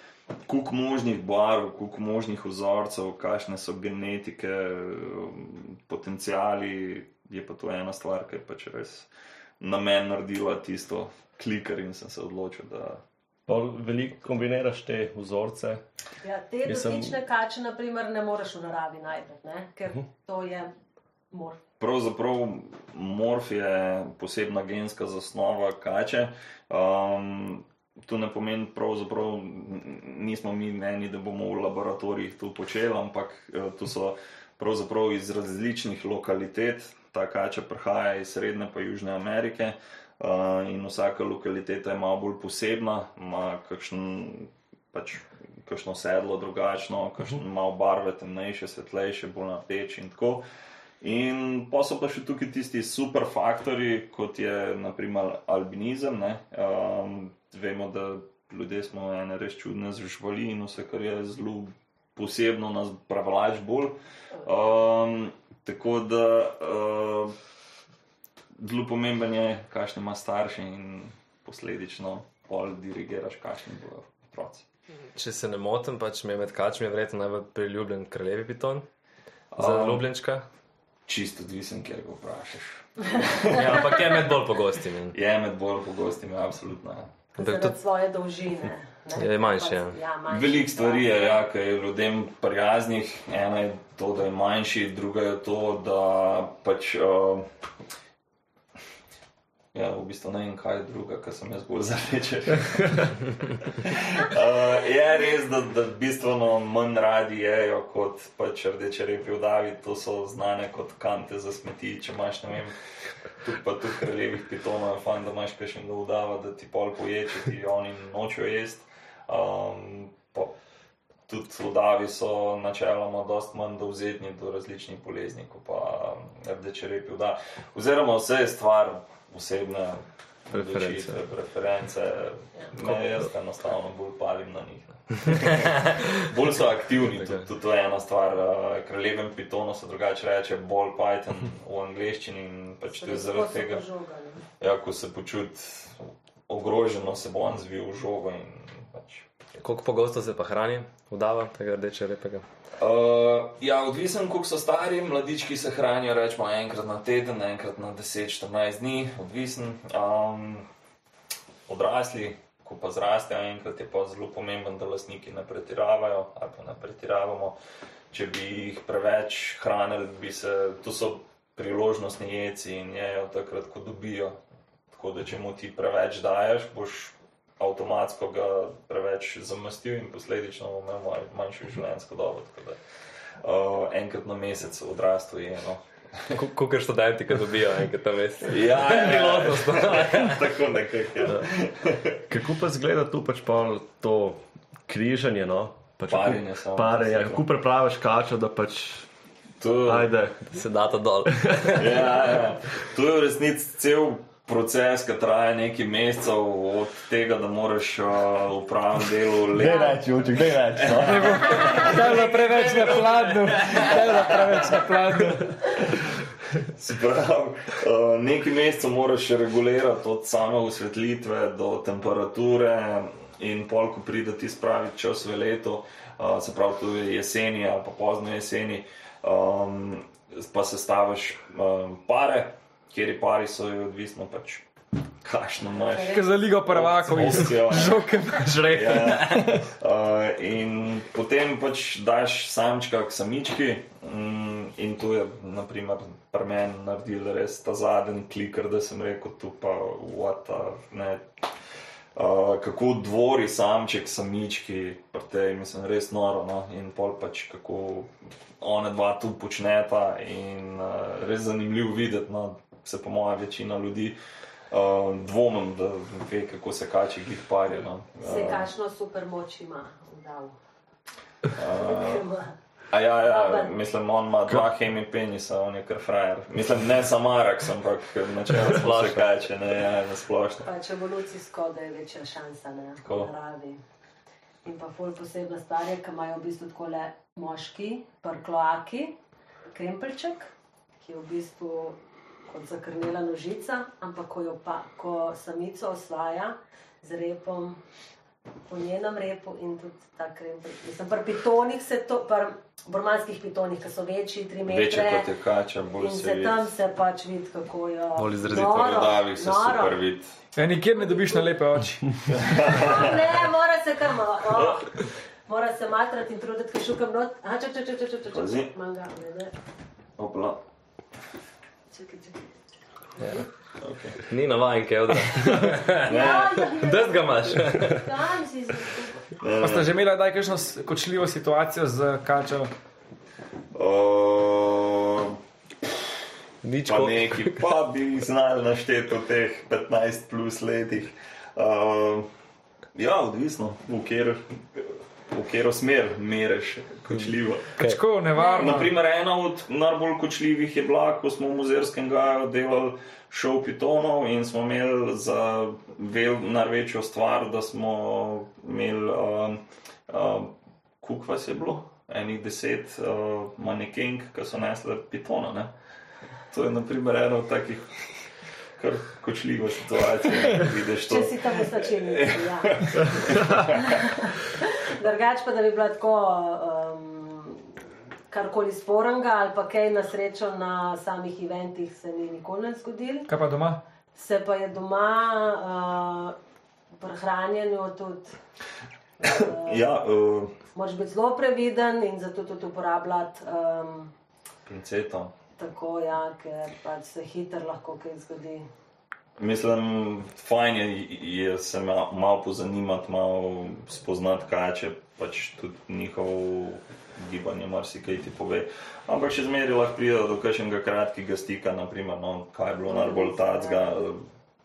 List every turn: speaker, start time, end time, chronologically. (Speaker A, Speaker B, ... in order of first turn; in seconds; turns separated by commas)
Speaker A: 0.5-13.0, Speaker B: 13.5-15.8, Speaker C: 16.2-20.7, Speaker B: 16.6-17.2, Speaker C: 21.3-21.6, Speaker A: 21.8-50.4, Speaker A: 51.0-67.3, Speaker A: 68.6-74.7, Speaker D: 75.2-78.9, Speaker A: 79.5-80.1, Speaker D: 79.6-80.5, Speaker A: 81.1-83.9, Speaker D: 83.5-85.2, Speaker A: 85.1-87.1, Speaker C: 87.4-91.4, Speaker D: 87.4-87.8, Speaker D: 89.1-90.0, Speaker A: 90.3-97.5, Speaker A: 99.7-112.8, Speaker A: 113.4-120.5, Speaker A: 121.3-143.8, Speaker B: 130.7-131.1, Speaker D: 135.3-136.1, Speaker C: 142.9-144.4, Speaker A: 144.6-149.3, Speaker D: 149.6-152.4, Speaker A: 152.8-160.7, Speaker A: 161.7-167.6, Speaker A: 168.1-174.4, Speaker A: 174.9-182.8, Speaker A: 183.4-186.4, Speaker D: 186.3-190.4, Speaker A: 188.4-192.2, Speaker B: 192.3-199.1, Speaker A: 196.1-197.5, Speaker A: 199.6-200.1, Speaker B: 199.8-200.6, Speaker D: 200.5-201.9, Speaker B: 201.3-201.9, Speaker A: 201.8-209.9, Speaker B: 209.4-211.7, Speaker C: 209.6-210.0, Speaker A: 210.8-214.8, Speaker E: 211.1-215.9, Speaker D: 212.0-213.9, Speaker A: 216.7-234.7, Speaker A: 235.2-238.1, Speaker C: 235.8-236.3, Speaker E: 236.1-239.7, Speaker D: 238.4-239.6, Speaker A: 238.7-251.3, Speaker A: 252.2-264.2, Speaker A: 264.7-268.7, Speaker C: 268.2-270.6, Speaker A: 271.5-272.2, Speaker C: 271.6-272.5, Speaker A: 272.9-280.7, Speaker C: 273.2-273.7, Speaker D: 278.6-279.3, Speaker C: 280.6-283.8, Speaker A: 283.0-283.3, Speaker C: 284.6-289.2, Speaker C: 289.7-297.8, Speaker C: 298.7-305.3, Speaker A: 304.7-306.7, Speaker C: 306.0-310.0, Speaker D: 308.2-308.9, Speaker A: 308.5-310.4, Speaker E: 310.6-312.5, Speaker C: 310.9-311.6, Speaker A: 312.3-313.2, Speaker C: 312.7-314.9, Speaker A: 314.5-314.8, Speaker C: 315.5-319.5, Speaker A: 318.3-318.7, Speaker A: 320.2-320.6, Speaker C: 321.9-322.4, Speaker A: 323.8-324.3, Speaker D: 324.2-328.1, Speaker C: 326.0-329.3, Speaker A: 326.1-326.5, Speaker A: 329.4-329.9, Speaker E: 329.6-332.7, Speaker A: 333.7-335.4, Speaker D: 336.6-337.6, Speaker A: 336.9-342.3, Speaker A: 342.9-347.8, Speaker E: 347.8-348.9, Speaker C: 348.4-348.9, Speaker A: 348.5-365.7, Speaker A: 366.5-367.9, Speaker A: 368.8-374.0, Speaker C: 371.1-377.7, Speaker C: 378.3-383.3, Speaker E: 383.3-383.8, Speaker C: 384.1-386.4, Speaker C: 386.9-388.4, Speaker C: 389.2-389.9, Speaker A: 389.2-390.6, Speaker C: 390.7-394.1, Speaker A: 394.7-395.3, Speaker C: 395.6-398.7, Speaker A: 399.4-414.2, Speaker C: 412.9-413.9